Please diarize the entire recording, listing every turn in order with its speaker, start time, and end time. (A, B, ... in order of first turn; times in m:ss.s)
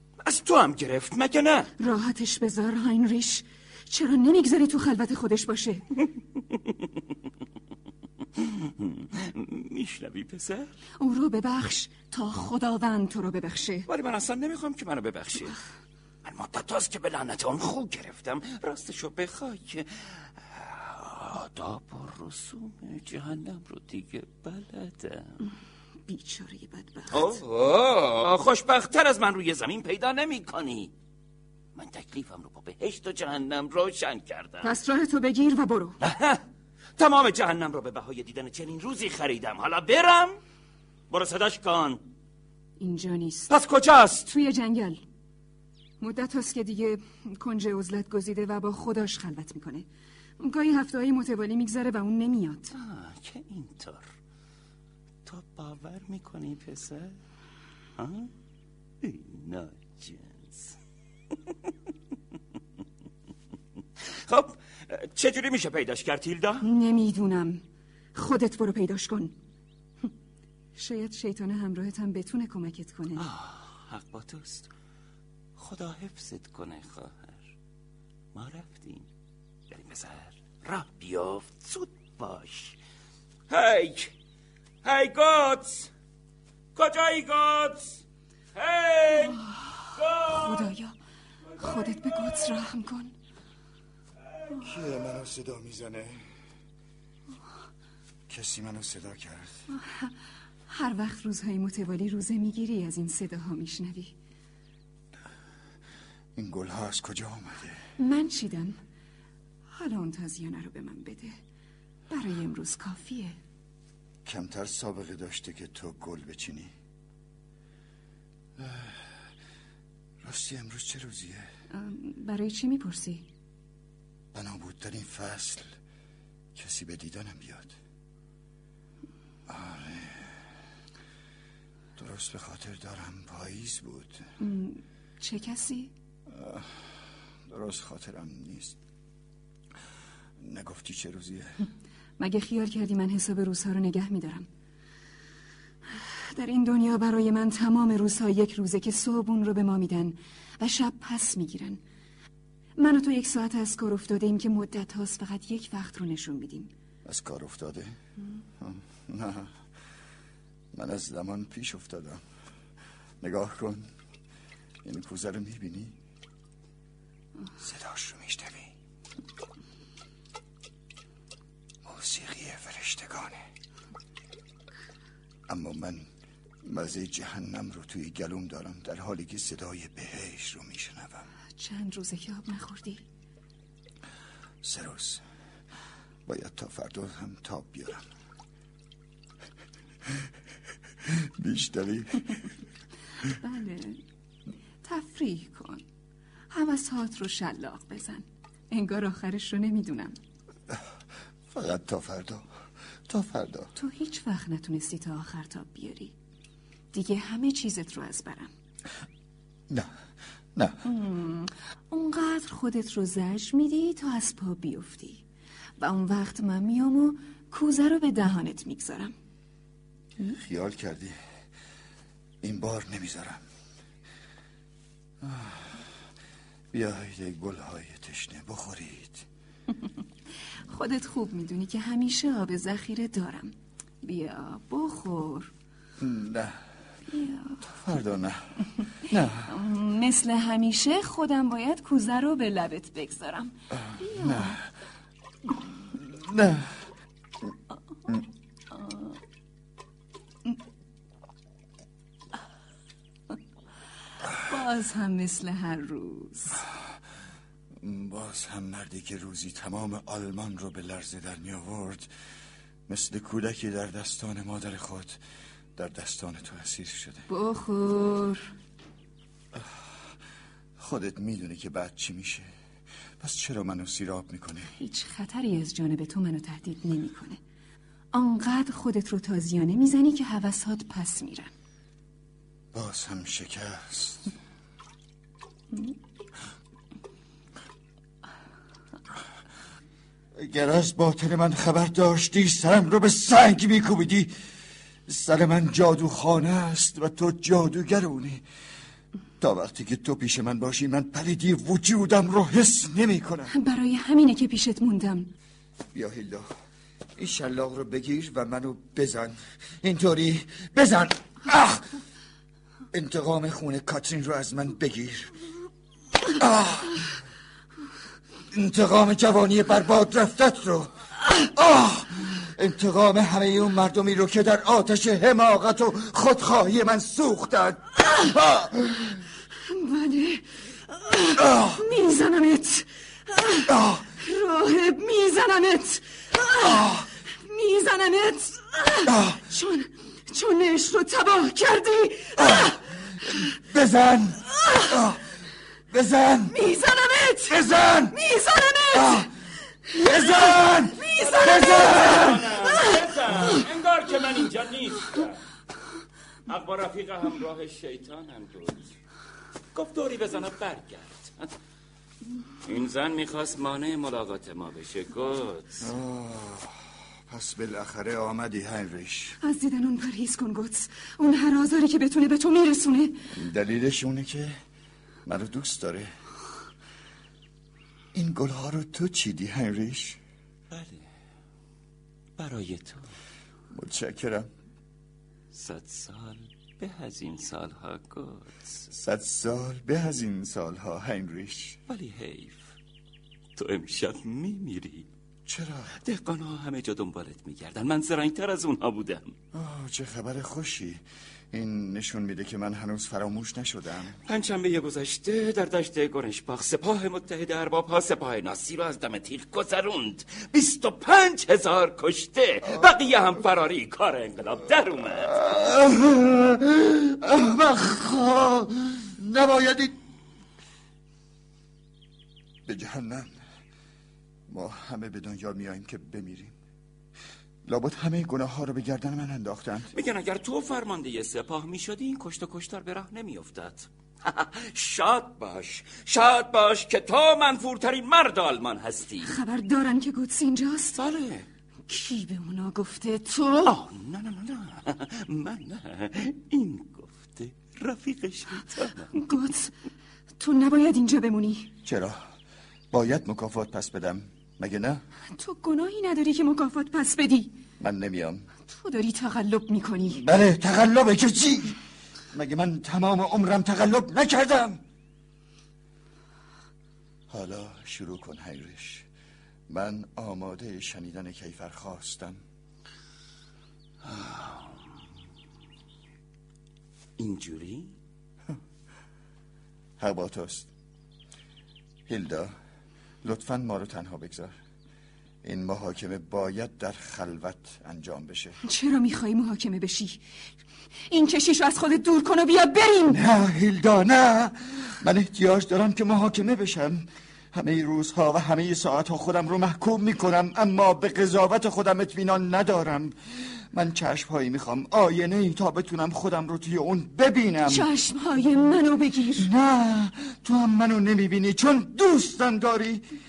0:00.2-0:01.7 A
0:01.8-0:05.8 B
0:08.4-0:10.7 A
0:11.0-0:13.9 B
0:13.9-0:15.6 A
0:16.2-0:25.3 A
0:26.1-0:27.4 B
0:27.1-0:30.9 A
0:31.8-0:34.7 A
0:34.6-0:36.0 B
0:36.0-0:36.4 A
0:37.0-0:40.4 A
0:41.1-0:42.0 A
0:42.8-0:43.5 B
0:43.5-0:44.3 A
0:44.2-0:45.0 B
0:46.0-0:49.9 B
0:50.4-0:52.7 B
0:52.7-0:54.1 A
0:55.2-0:57.2 A
0:58.0-0:58.3 A
0:59.0-1:00.8 A
1:04.3-1:06.6 A
1:06.6-1:07.6 B
1:08.2-1:09.4 B
1:10.8-1:13.3 B
1:13.2-1:14.7 A
1:15.6-1:17.4 A
1:18.3-1:19.1 A
1:19.7-1:22.8 A
1:23.5-1:24.1 A
1:24.8-1:25.9 A
1:26.8-1:28.0 A
1:28.6-1:30.7 A
1:30.3-1:31.0 B
1:31.6-1:33.1 B
1:34.6-1:36.3 C
1:38.3-1:39.5 C
1:39.7-1:40.1 B
1:40.7-1:44.1 B
1:46.4-1:47.8 C
1:48.0-1:48.8 B
1:49.7-1:51.4 B
1:52.1-1:53.4 B
1:54.2-1:56.7 C
1:58.6-1:59.1 C
2:00.2-2:01.5 C
2:01.7-2:03.3 B
2:04.3-2:05.8 C
2:06.6-2:07.8 C
2:09.5-2:10.3 C
2:12.0-2:14.3 C
2:14.4-2:15.9 B
2:16.3-2:16.7 C
2:17.5-2:18.8 C
2:20.4-2:21.6 C
2:22.2-2:24.5 B
2:26.3-2:31.8 B
2:32.8-2:36.7 B
2:37.0-2:38.0 C
2:38.6-2:39.5 C
2:40.7-2:42.2 C
2:43.2-2:43.9 C
2:44.8-2:46.0 C
2:47.6-2:48.7 C
2:51.8-2:53.4 C
2:55.5-2:56.1 C
2:56.6-3:01.3 C
3:01.6-3:03.0 B
3:04.6-3:05.2 C
3:06.3-3:08.0 C
3:11.0-3:12.5 C
3:13.4-3:14.0 B
3:14.8-3:15.8 B
3:16.5-3:20.2 B
3:21.5-3:22.4 C
3:23.1-3:23.7 C
3:23.8-3:26.2 B
3:26.9-3:28.5 B
3:30.6-3:30.8 C
3:30.8-3:35.2 B
3:35.8-3:39.1 B
3:40.2-3:41.2 C
3:42.4-3:43.4 C
3:45.2-3:45.8 C
3:46.7-3:49.3 C
3:50.7-3:55.5 B
3:56.0-3:56.6 C
3:57.1-3:57.6 B
3:57.6-3:58.4 C
3:59.1-3:59.5 C
3:59.5-4:04.6 B
4:03.7-4:04.6 C
4:05.5-4:06.7 C
4:14.4-4:16.6 B
4:17.8-4:22.1 C
4:22.9-4:25.2 C
4:25.8-4:27.3 C
4:27.3-4:28.5 B
4:29.5-4:29.9 C
4:30.8-4:32.5 C
4:33.2-4:34.7 C
4:34.8-4:37.4 B
4:38.1-4:41.5 B
4:42.7-4:44.3 C
4:50.4-4:54.3 C
4:55.1-4:58.4 C
4:59.4-5:03.5 C
5:03.5-5:05.3 B
5:05.9-5:06.5 C
5:07.2-5:11.9 C
5:12.9-5:15.3 C
5:16.4-5:17.0 C
5:18.5-5:29.1 C
5:29.7-5:42.8 B
5:33.7-5:34.0 C
5:36.6-5:37.0 C
5:39.1-5:39.4 C
5:43.6-5:45.2 C
5:45.9-5:46.6 C
5:46.5-5:49.3 B
5:47.5-5:48.2 C
5:48.9-5:49.3 C
5:49.9-5:52.5 C
5:50.0-5:53.1 B
5:51.3-5:55.4 A
5:56.5-5:58.9 A
5:59.7-6:01.5 A
6:02.6-6:05.9 A
6:05.8-6:06.8 C
6:07.3-6:09.4 C
6:09.4-6:13.2 B
6:13.3-6:14.6 C
6:15.2-6:16.1 C
6:18.1-6:20.2 C
6:20.7-6:21.0 A
6:22.4-6:23.1 A
6:23.7-6:24.5 C
6:25.5-6:28.9 A
6:28.9-6:31.8 C
6:31.9-6:32.6 A
6:33.6-6:35.1 A
6:35.5-6:35.9 C
6:36.0-6:39.3 A
6:39.5-6:44.2 C
6:44.3-6:55.4 A
6:55.3-7:00.0 C
7:02.7-7:03.4 C
7:04.5-7:06.6 C
7:07.6-7:09.9 C
7:09.9-7:19.3 A
7:19.2-7:21.0 B
7:21.0-7:21.5 A
7:21.9-7:23.8 B
7:23.6-7:29.2 A
7:29.1-7:29.7 B
7:30.4-7:31.7 B
7:31.8-7:32.2 C
7:32.9-7:35.0 C
7:35.4-7:37.5 B
7:37.8-7:38.5 C
7:38.7-7:40.2 B
7:40.1-7:41.8 C
7:42.3-7:44.8 C
7:47.3-7:49.1 C
7:49.7-7:52.4 C
7:54.1-7:55.0 A
7:57.2-7:57.9 A
8:00.0-8:00.7 C
8:02.1-8:02.5 C
8:03.2-8:04.6 C
8:05.4-8:08.6 C
8:08.7-8:10.2 B
8:11.1-8:13.2 B
8:13.1-8:27.9 C
8:27.7-8:29.5 B
8:29.4-8:33.0 C